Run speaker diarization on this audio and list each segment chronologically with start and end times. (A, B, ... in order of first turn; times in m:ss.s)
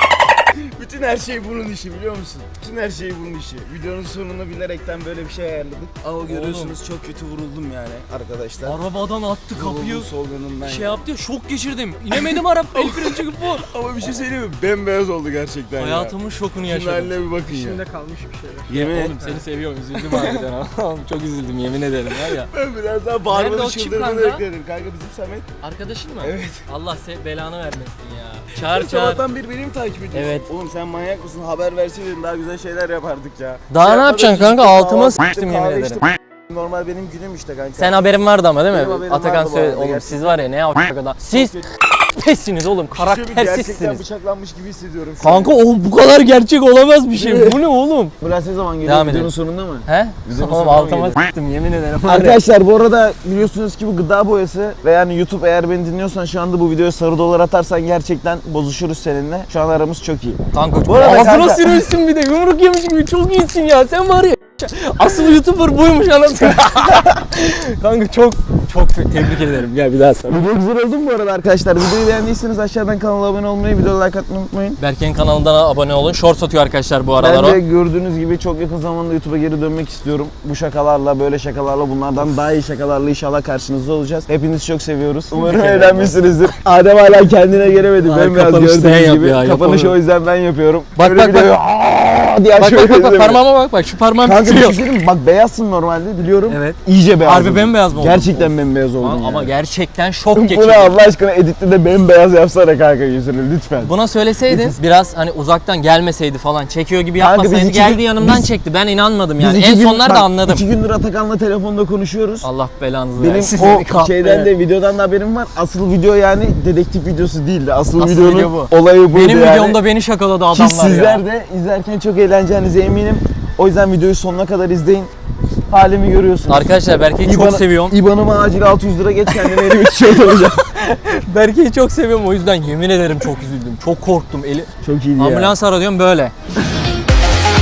0:00.5-0:08.8 A
0:06.2-0:06.7 B
0:08.6-0:10.1 B
0:09.5-0:11.0 A
0:10.6-0:13.7 B
0:12.1-0:17.8 A
0:15.8-0:17.2 B
0:17.4-0:19.4 C
0:18.7-0:19.2 A
0:18.7-0:22.5 B
0:20.0-0:20.5 A
0:22.1-0:25.5 A
0:23.3-0:24.4 B
0:25.6-0:29.2 B
0:26.2-0:26.7 A
0:28.5-0:40.4 A
0:30.1-0:30.5 B
0:33.7-0:36.1 B
0:37.8-0:44.0 B
0:41.3-0:41.6 A
0:42.9-0:45.5 A
0:45.2-0:48.1 B
0:47.2-0:47.6 A
0:48.2-0:51.2 A
0:48.8-0:49.3 B
0:49.8-0:52.4 B
0:52.1-1:01.9 A
1:00.5-1:10.4 B
1:10.2-1:14.8 A
1:14.8-1:17.6 B
1:17.2-1:33.4 A
1:25.3-1:26.5 B
1:28.0-1:30.0 B
1:31.0-1:31.7 B
1:32.5-1:34.8 B
1:34.2-1:39.5 A
1:36.5-1:41.0 B
1:40.3-1:43.9 A
1:43.8-1:50.6 B
1:44.5-1:44.8 A
1:47.2-1:48.5 A
1:49.4-1:52.5 A
1:52.4-1:54.5 B
1:53.2-1:59.8 A
1:58.0-2:01.2 B
2:00.5-2:05.1 A
2:05.7-2:10.6 A
2:06.5-2:08.0 B
2:09.3-2:16.3 B
2:14.8-2:15.6 A